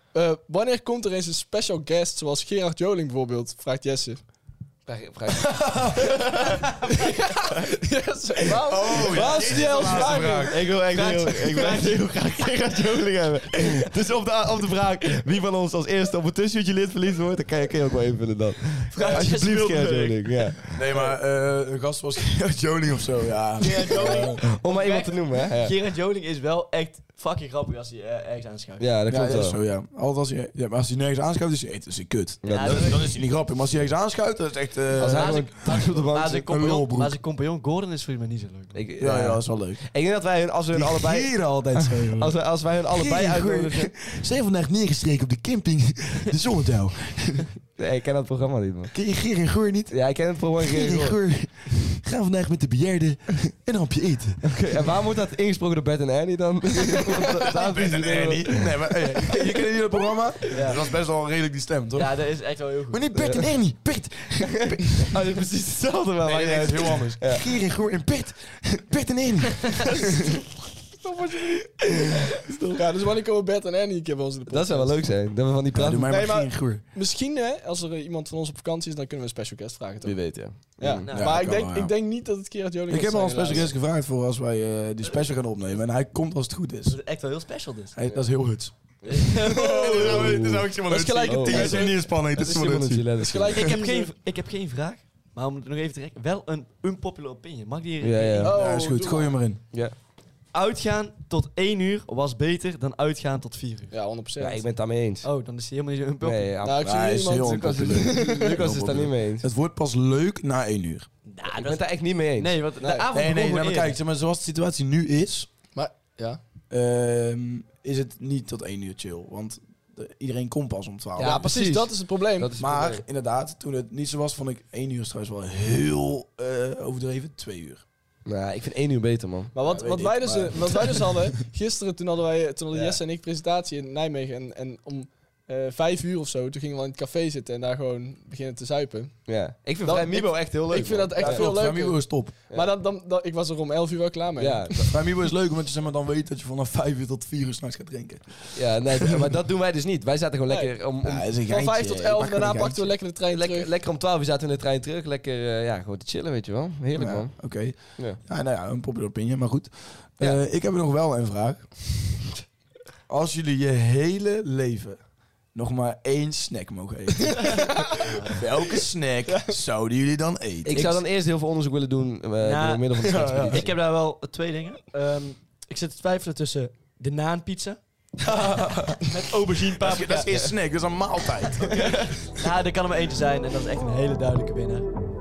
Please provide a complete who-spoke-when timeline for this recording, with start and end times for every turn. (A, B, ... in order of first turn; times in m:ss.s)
0:00.1-0:04.2 A
0:04.8-0:07.7 B
0:05.5-0:05.9 C
0:06.9-0:10.5 A
0:08.6-0:10.6 C
0:08.9-0:20.8 B
0:09.2-0:13.9 D
0:18.9-0:20.5 D
0:19.0-0:19.3 C
0:20.7-0:24.4 C
0:23.6-0:28.9 D
0:24.0-0:25.7 B
0:28.8-0:29.6 B
0:29.1-0:37.1 C
0:32.4-0:33.0 B
0:32.4-0:33.2 D
0:35.0-0:36.5 B
0:35.0-0:38.8 D
0:38.7-0:43.9 B
0:39.0-0:39.8 C
0:40.7-0:42.4 C
0:42.9-0:47.5 C
0:47.8-0:48.9 B
0:48.9-0:50.0 C
0:49.9-0:51.2 B
0:50.6-0:54.4 C
0:54.4-1:00.1 B
0:57.4-1:02.2 C
1:00.5-1:00.8 D
1:01.9-1:03.2 D
1:02.9-1:05.1 C
1:03.2-1:03.5 B
1:04.4-1:07.4 B
1:06.2-1:10.4 C
1:11.1-1:12.8 B
1:12.7-1:15.1 A
1:14.5-1:16.1 B
1:15.7-1:16.8 C
1:16.1-1:23.7 A
1:20.0-1:21.1 B
1:21.0-1:21.4 D
1:21.1-1:21.9 C
1:22.9-1:27.0 C
1:25.0-1:25.8 D
1:26.8-1:28.0 D
1:28.0-1:33.1 C
1:29.0-1:30.6 D
1:30.0-1:30.7 B
1:30.8-1:32.0 A
1:31.2-1:33.7 B
1:33.2-1:34.1 A
1:33.5-1:38.6 D
1:38.0-1:38.5 B
1:38.4-1:39.4 A
1:38.5-1:39.6 C
1:40.5-1:43.9 D
1:43.9-1:44.6 A
1:44.4-1:45.3 B
1:45.2-1:46.5 D
1:46.2-1:49.5 B
1:46.6-1:48.6 A
1:46.8-1:51.1 C
1:51.2-1:54.0 D
1:51.5-1:53.1 B
1:53.1-1:55.5 C
1:55.7-1:56.4 A
1:56.7-2:01.5 C
2:01.2-2:02.5 A
2:01.2-2:03.0 B
2:02.6-2:07.8 C
2:08.2-2:09.6 B
2:09.5-2:24.7 A
2:09.6-2:11.1 C
2:12.7-2:13.0 B
2:19.2-2:21.5 B
2:21.2-2:22.3 C
2:24.4-2:25.0 B
2:24.9-2:29.1 C
2:28.5-2:31.3 B
2:30.5-2:30.7 A
2:31.0-2:32.7 C
2:31.4-2:33.7 A
2:32.0-2:38.2 B
2:36.9-2:42.0 C
2:43.1-2:45.0 C
2:45.5-2:47.8 C
2:47.3-2:47.8 A
2:48.0-2:48.4 D
2:48.3-2:50.9 C
2:49.3-2:49.5 A
2:50.6-2:53.7 B
2:50.7-2:51.0 D
2:52.4-2:57.8 D
2:53.0-2:53.6 C
2:58.2-2:59.0 C
2:59.0-3:00.5 D
2:59.8-3:01.8 C
3:01.6-3:04.9 D
3:01.8-3:02.1 B